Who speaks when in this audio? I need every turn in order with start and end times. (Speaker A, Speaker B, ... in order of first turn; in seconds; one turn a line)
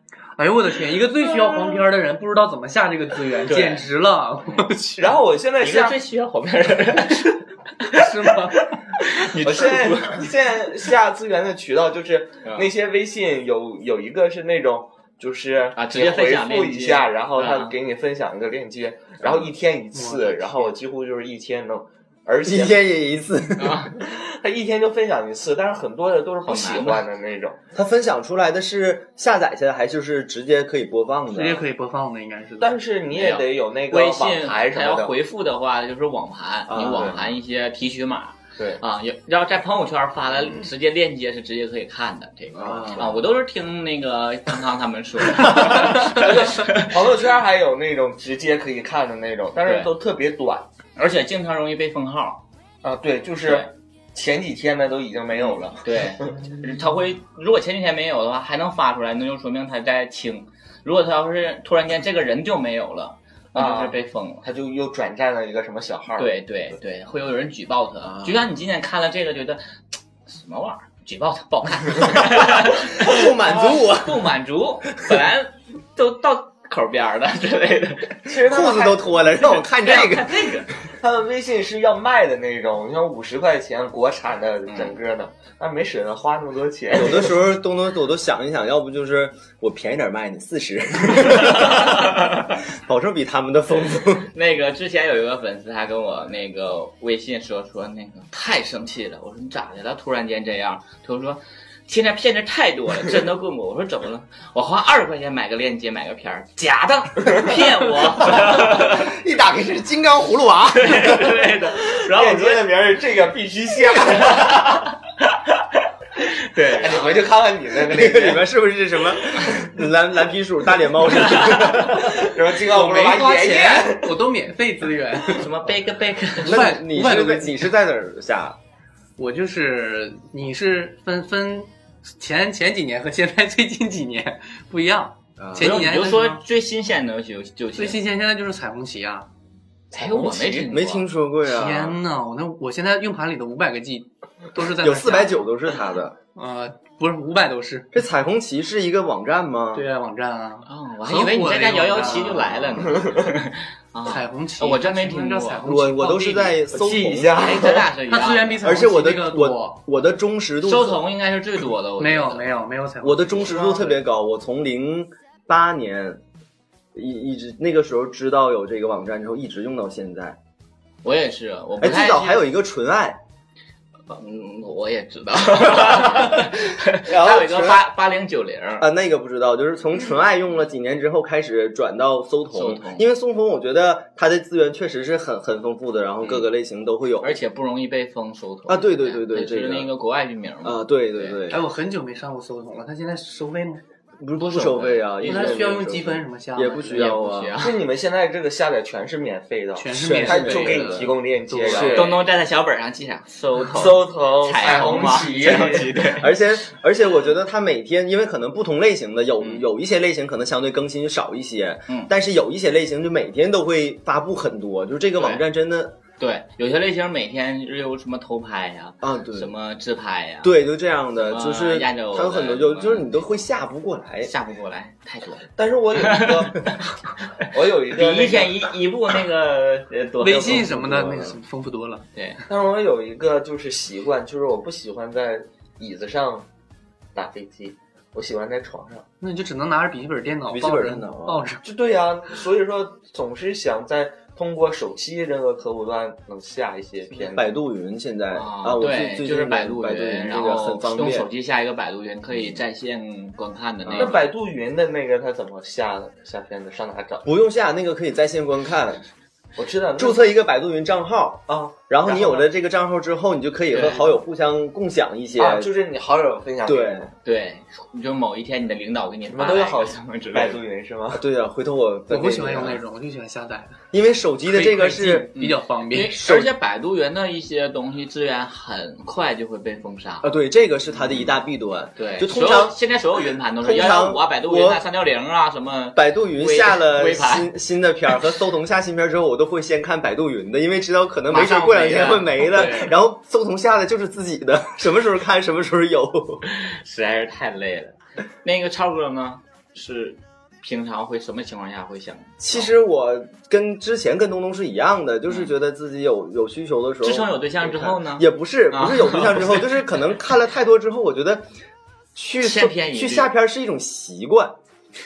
Speaker A: 0.4-5.1
Speaker B: 3.5-3.9
Speaker C: 5.0-6.0
Speaker B: 5.6-10.3
Speaker A: 7.9-8.7
Speaker C: 9.4-22.8
Speaker B: 12.4-12.7
Speaker B: 15.8-17.7
Speaker A: 19.9-20.8
Speaker D: 22.4-23.9
Speaker B: 23.6-24.0
Speaker C: 24.0-27.6
Speaker B: 26.4-27.0
Speaker D: 27.7-31.7
Speaker A: 31.3-32.7
Speaker C: 32.6-35.2
Speaker B: 33.1-47.0
Speaker D: 36.7-37.2
Speaker C: 36.9-37.3
Speaker D: 42.5-43.2
Speaker C: 45.8-50.7
Speaker B: 49.6-49.9
Speaker B: 51.0-52.4
Speaker C: 52.8-56.6
Speaker B: 53.4-53.7
Speaker B: 55.8-64.4
Speaker C: 63.5-66.4
Speaker B: 66.2-69.6
Speaker D: 68.0-68.4
Speaker B: 70.3-78.2
Speaker D: 73.0-74.3
Speaker C: 78.2-79.4
Speaker D: 78.4-80.5
Speaker B: 79.8-80.7
Speaker C: 81.0-87.3
Speaker B: 84.7-85.0
Speaker D: 86.9-92.2
Speaker B: 91.6-92.5
Speaker D: 92.8-94.3
Speaker B: 94.2-109.1
Speaker D: 108.2-111.4
Speaker B: 110.7-112.7
Speaker C: 111.9-114.6
Speaker B: 114.2-117.1
Speaker C: 116.7-118.5
Speaker D: 117.8-122.3
Speaker B: 121.2-121.9
Speaker C: 122.0-124.2
Speaker A: 122.6-125.5
Speaker B: 125.3-126.7
Speaker A: 126.4-127.7
Speaker D: 126.4-128.6
Speaker A: 129.2-136.4
Speaker D: 135.4-135.8
Speaker B: 135.6-138.0
Speaker A: 137.7-139.3
Speaker C: 139.9-140.7
Speaker B: 139.9-141.1
Speaker D: 140.7-142.0
Speaker A: 141.4-145.5
Speaker D: 144.8-146.2
Speaker A: 146.3-147.9
Speaker D: 147.9-149.8
Speaker A: 149.7-152.6
Speaker B: 150.6-158.6
Speaker C: 152.8-153.3
Speaker A: 154.0-156.4
Speaker D: 155.6-157.6
Speaker C: 156.9-157.9
Speaker A: 158.1-159.8
Speaker D: 158.6-161.0
Speaker B: 160.6-162.6
Speaker A: 162.0-163.9
Speaker D: 163.0-166.2
Speaker D: 166.9-170.4
Speaker B: 171.0-172.4
Speaker D: 171.8-173.2
Speaker B: 174.1-178.9
Speaker D: 177.0-177.8
Speaker D: 178.8-187.4
Speaker B: 182.5-183.1
Speaker B: 186.2-186.5
Speaker B: 187.2-191.4
Speaker D: 188.7-189.9
Speaker D: 190.6-191.6
Speaker A: 191.5-193.8
Speaker D: 194.2-197.6
Speaker B: 194.4-195.6
Speaker A: 195.2-197.2
Speaker B: 196.9-197.8
Speaker C: 197.6-202.2
Speaker A: 199.7-202.1
Speaker D: 199.9-201.1
Speaker D: 201.7-202.0
Speaker B: 201.7-206.4
Speaker C: 203.7-206.1
Speaker D: 206.2-216.0
Speaker B: 215.2-215.4
Speaker B: 216.2-220.5
Speaker D: 219.0-219.5
Speaker D: 220.4-224.3
Speaker B: 221.2-223.3
Speaker B: 224.2-226.8
Speaker C: 225.6-226.7
Speaker B: 227.4-230.7
Speaker C: 227.5-228.6
Speaker A: 230.2-232.0
Speaker D: 230.3-231.4
Speaker B: 232.1-232.4
Speaker C: 232.5-236.5
Speaker C: 237.1-239.0
Speaker A: 239.2-241.6
Speaker D: 240.5-241.5
Speaker C: 241.6-247.5
Speaker D: 247.2-251.3
Speaker B: 248.3-254.3
Speaker D: 252.3-252.6
Speaker D: 253.8-254.2
Speaker C: 253.9-257.3
Speaker D: 257.2-259.0
Speaker C: 259.6-260.2
Speaker D: 259.9-265.7
Speaker C: 261.5-262.5
Speaker B: 263.7-264.1
Speaker C: 265.4-267.1
Speaker D: 266.6-267.1
Speaker B: 267.2-270.6
Speaker C: 269.2-271.2
Speaker D: 271.1-272.8
Speaker A: 272.1-273.8
Speaker D: 273.9-275.3
Speaker A: 274.5-276.2
Speaker B: 275.4-280.3
Speaker D: 276.1-276.5
Speaker D: 280.2-282.8
Speaker B: 280.9-281.3
Speaker B: 282.0-287.5
Speaker D: 283.6-284.8
Speaker D: 285.9-296.4
Speaker B: 291.3-292.8
Speaker A: 292.5-292.9
Speaker B: 296.5-302.7
Speaker D: 302.4-311.4
Speaker B: 307.0-309.6
Speaker D: 312.1-314.6
Speaker B: 312.4-313.3